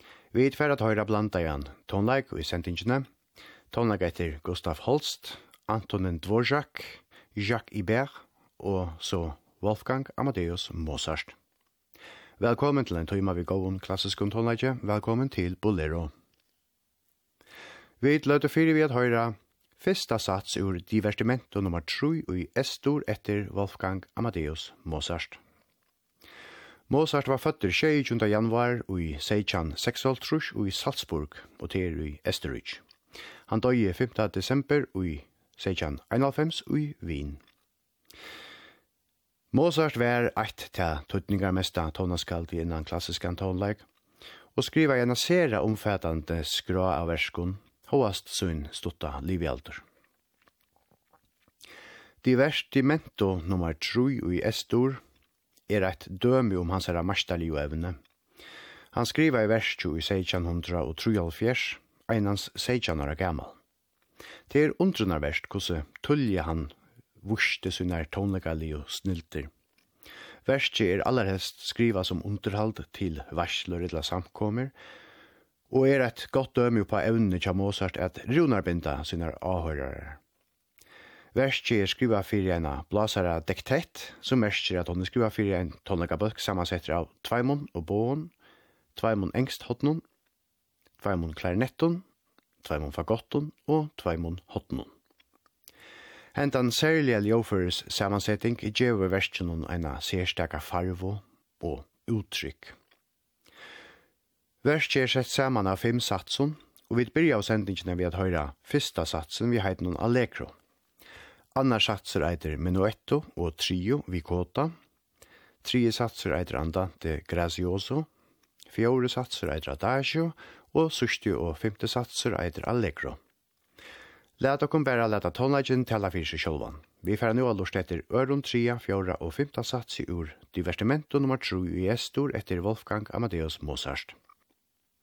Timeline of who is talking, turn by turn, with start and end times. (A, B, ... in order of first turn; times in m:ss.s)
0:00.3-0:03.1 A
0:03.7-0:11.4 A
0:12.4-0:16.1 A
0:18.0-0:25.4 A
0:26.9-0:32.8 A
0:33.5-0:37.4 A
0:39.5-0:43.9 A
0:44.5-0:49.8 A
0:52.2-0:55.0 A
0:55.7-0:58.0 A
0:58.9-1:03.6 A
1:04.5-1:09.5 A
1:10.4-1:14.7 A
1:15.7-1:20.2 A
1:21.3-1:28.3 A
1:28.9-1:30.0 A
1:31.0-1:32.0 A
1:32.6-1:34.9 A
1:36.3-1:42.8 A
1:44.6-1:50.5 A
1:51.5-1:54.7 A
1:55.6-1:58.1 A
1:58.7-2:03.2 A
2:04.4-2:14.2 A